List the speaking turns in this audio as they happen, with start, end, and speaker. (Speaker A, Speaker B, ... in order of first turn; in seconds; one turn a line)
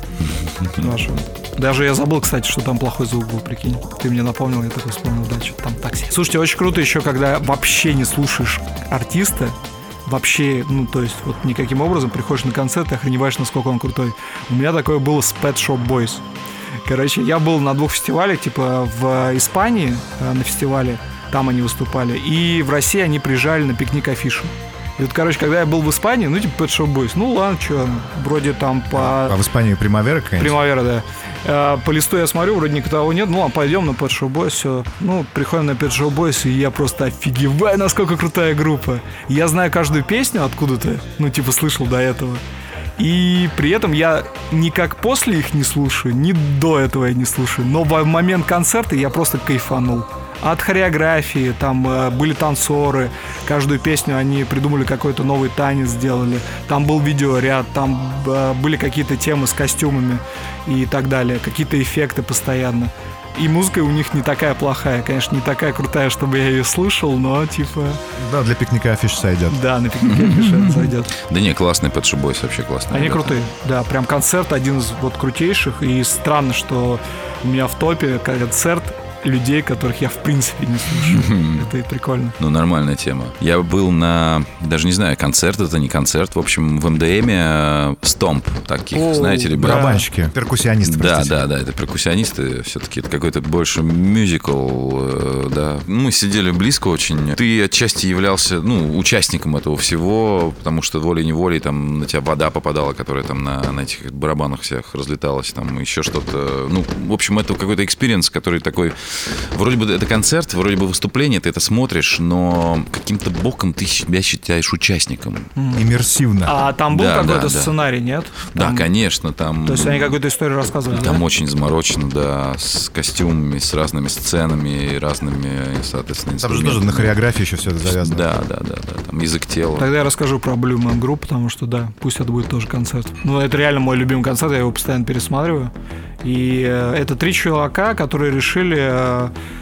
Speaker A: 0.2-0.9
Speaker B: 0.8-16.2
Speaker B: 16.9-29.4
Speaker C: 29.1-30.6
Speaker B: 30.4-42.4
Speaker B: 43.0-68.0
Speaker C: 68.2-69.6
Speaker B: 69.5-71.2
Speaker A: 70.1-73.4
Speaker B: 72.9-82.4
Speaker A: 81.0-81.7
Speaker A: 82.4-90.0
Speaker B: 88.9-90.1
Speaker C: 89.6-91.5
Speaker A: 90.8-115.5
Speaker B: 115.6-115.9
Speaker C: 115.7-116.6
Speaker B: 116.5-118.9
Speaker A: 116.9-117.7
Speaker A: 118.5-120.2
Speaker B: 119.7-121.2
Speaker A: 120.9-127.2
Speaker C: 126.4-128.3
Speaker A: 127.8-129.9
Speaker B: 129.8-135.7
Speaker B: 136.2-139.3